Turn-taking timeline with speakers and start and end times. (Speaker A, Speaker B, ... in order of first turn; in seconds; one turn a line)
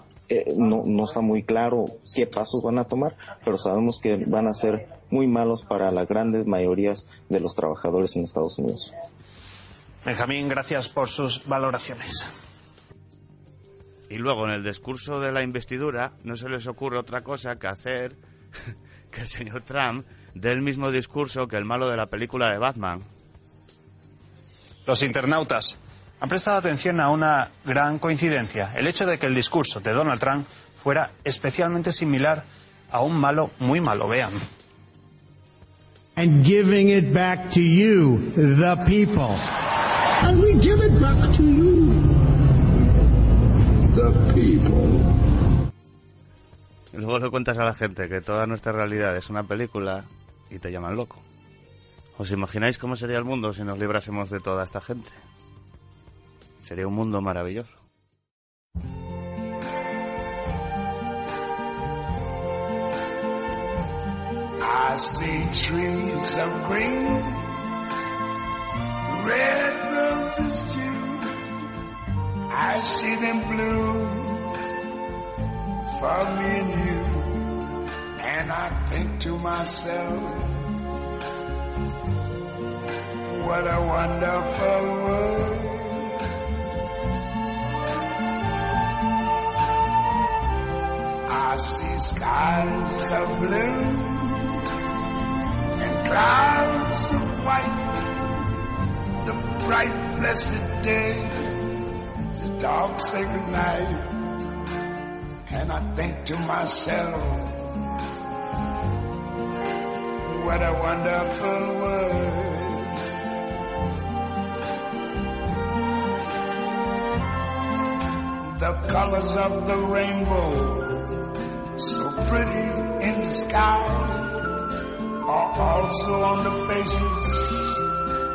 Speaker A: 0.3-8.9
Speaker B: 10.0-12.3
Speaker C: 14.1-18.2
Speaker C: 19.1-23.0
Speaker B: 24.9-34.4
Speaker D: 36.1-39.5
Speaker D: 40.2-41.7
Speaker C: 46.9-51.2
Speaker C: 52.2-55.2
Speaker C: 56.6-57.8
Speaker E: 64.6-67.5
Speaker E: 69.0-71.3
Speaker E: 72.5-74.5
Speaker E: 75.9-77.4
Speaker E: 78.2-80.6
Speaker E: 83.3-86.1
Speaker E: 91.3-94.5
Speaker E: 95.8-98.1
Speaker E: 99.2-101.8
Speaker E: 102.5-104.2
Speaker E: 105.5-107.6
Speaker E: 110.2-112.9
Speaker E: 118.5-121.3
Speaker E: 121.8-124.4
Speaker E: 125.3-127.8